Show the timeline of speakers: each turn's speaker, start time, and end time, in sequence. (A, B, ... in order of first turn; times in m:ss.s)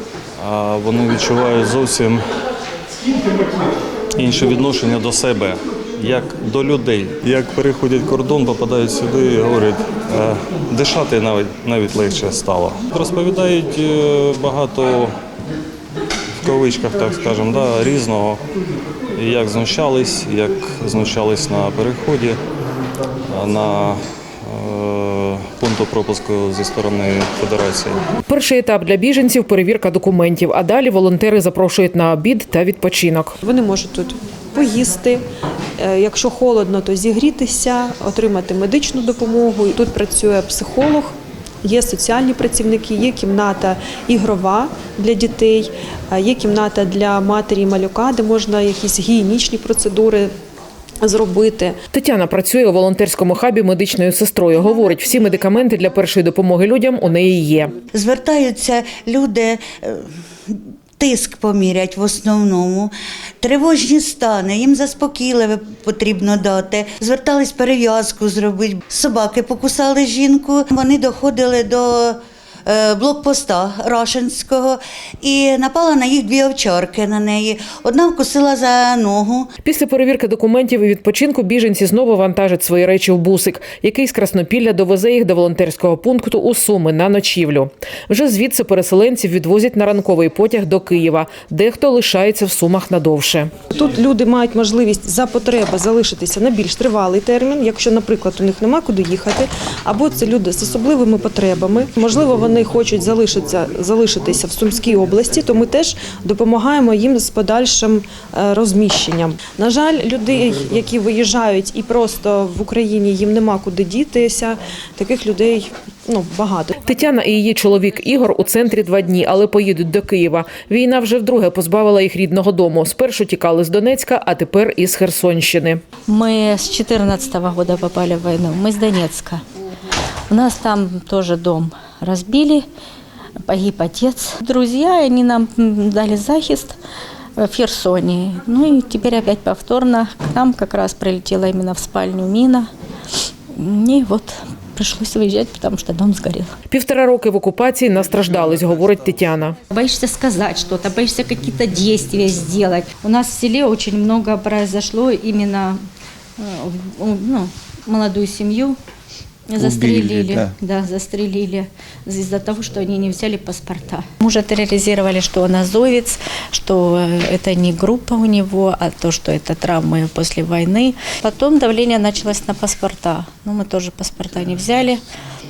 0:00.4-0:02.2 A
0:04.2-0:15.1 A
0:16.4-0:18.4 A
0:19.2-0:22.4 A
0:23.3-0:28.0 A
0:28.3-0:33.4 B
0:33.4-0:35.2 C
0:35.8-0:50.3 C
0:51.0-0:51.8 C
0:51.9-0:57.7 B
0:57.9-1:19.5 D
1:19.6-1:33.5 B
1:33.7-1:56.8 C
1:56.8-2:05.8 B
2:06.1-2:09.4 E
2:10.3-2:12.6 E
2:13.4-2:16.7 E
2:17.4-2:22.7 E
2:23.6-2:26.5 E
2:26.7-2:29.6 B
2:29.7-2:35.8 E
2:36.4-2:38.8 E
2:39.5-2:55.0 E